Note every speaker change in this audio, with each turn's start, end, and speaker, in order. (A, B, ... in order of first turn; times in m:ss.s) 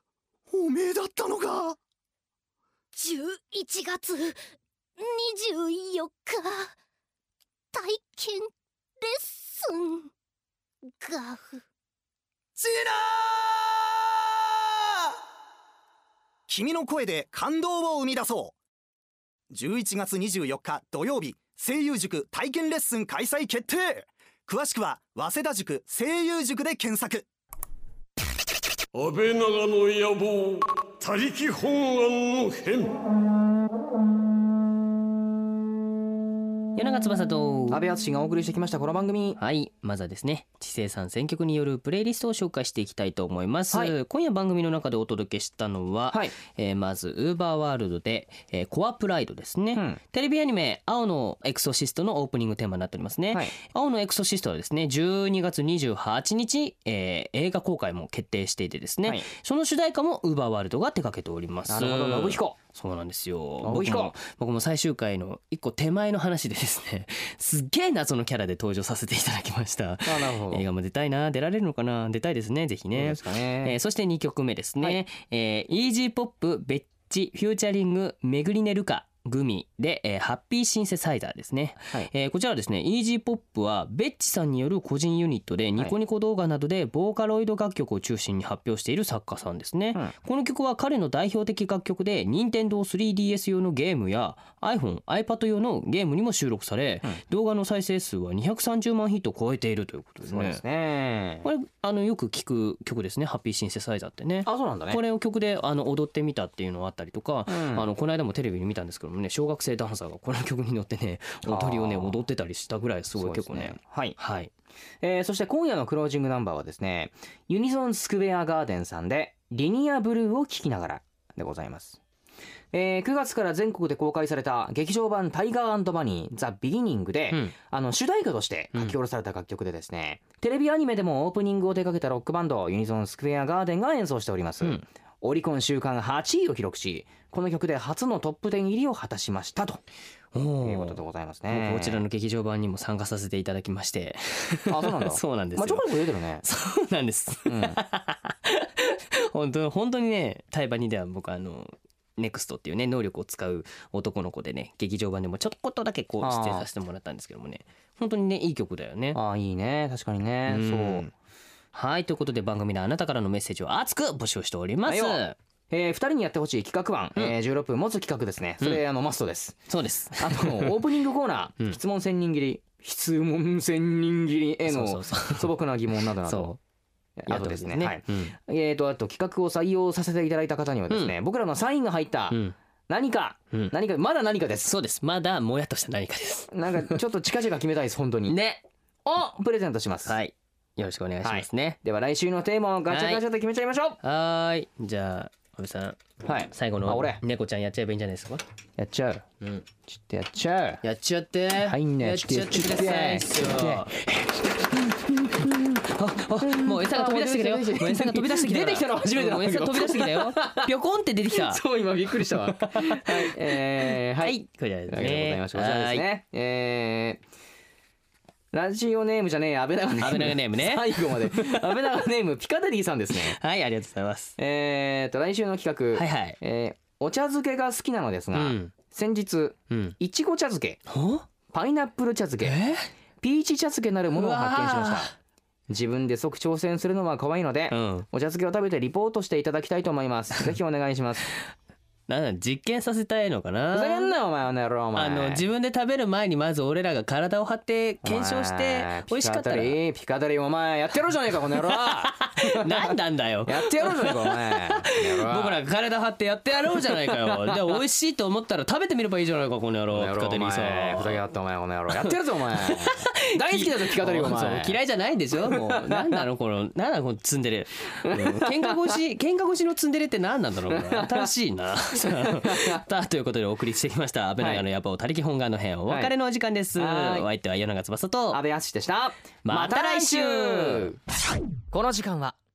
0:00.5-0:01.8 A
0:02.9-0:04.4 B
0:05.0-0:06.7 B
0:07.7-0:08.5 B
0:09.0-0:10.1 B
0:10.9-0:11.6 B
0:12.6-0:15.1 A
0:16.5-0:18.6 A
0:19.5-0:27.3 A
0:28.9-0:32.9 C
0:36.8-0:37.8 D
0:37.7-0:39.4 E
0:39.4-1:40.6 D
0:49.7-0:50.0 E
1:01.7-1:02.6 E
1:03.6-1:04.2 E
1:10.0-1:10.6 E
1:12.9-1:13.8 E
1:40.3-1:41.5 E
1:41.4-1:54.5 D
1:44.5-1:45.0 E
1:47.5-1:47.9 E
1:51.4-1:52.2 E
1:53.2-1:54.2 E
1:55.0-2:02.0 E
2:02.7-2:19.8 E
2:20.3-2:39.2 D
2:20.6-2:22.0 E
2:24.7-2:26.4 E
2:27.5-2:27.8 E
2:36.2-2:36.7 E
2:39.1-2:41.1 E
2:40.5-2:41.1 D
2:41.7-2:45.4 D
2:44.9-2:56.6 E
2:49.7-2:50.8 D
2:54.7-2:55.5 D
2:56.2-2:56.6 D
2:57.2-3:04.7 E
2:57.3-2:58.3 D
3:04.6-3:07.0 D
3:06.5-3:08.4 E
3:08.3-3:08.6 D
3:09.0-3:10.2 E
3:10.0-3:11.8 D
3:11.2-3:14.0 E
3:12.9-3:13.2 D
3:14.0-3:16.0 D
3:16.2-3:17.2 E
3:16.5-3:18.4 D
3:18.8-3:19.3 E
3:19.4-3:19.7 D
3:19.9-3:20.8 E
3:20.8-3:23.9 D
3:21.6-3:25.8 E
3:25.8-3:31.6 D
3:26.4-3:30.7 E
3:31.3-3:34.4 E
3:32.3-3:36.1 D
3:34.9-3:37.2 E
3:38.5-3:43.4 E
3:40.0-3:41.8 D
3:43.1-3:44.4 D
3:44.4-3:50.8 E
3:45.9-3:46.4 D
3:48.3-3:48.7 D
3:49.7-3:50.0 D
3:50.9-3:51.3 D
3:51.5-3:52.6 E
3:52.4-3:52.9 D
3:53.2-3:55.1 E
3:54.1-3:55.2 D
3:55.7-4:01.3 E
3:57.7-3:58.1 D
4:02.1-4:04.1 D
4:03.7-4:05.4 E
4:05.0-4:09.8 D
4:08.0-4:12.9 E
4:12.1-4:21.2 D
4:13.5-4:15.6 E
4:16.7-4:17.6 E
4:19.9-4:24.8 E
4:22.6-4:38.4 D
4:25.4-4:26.3 E
4:28.0-4:28.9 E
4:30.7-4:31.3 E
4:31.9-4:32.8 E
4:34.4-4:34.6 E
4:35.9-4:36.1 E
4:36.8-4:37.3 E
4:38.3-4:41.0 E
4:39.4-4:40.9 D
4:41.7-4:42.4 E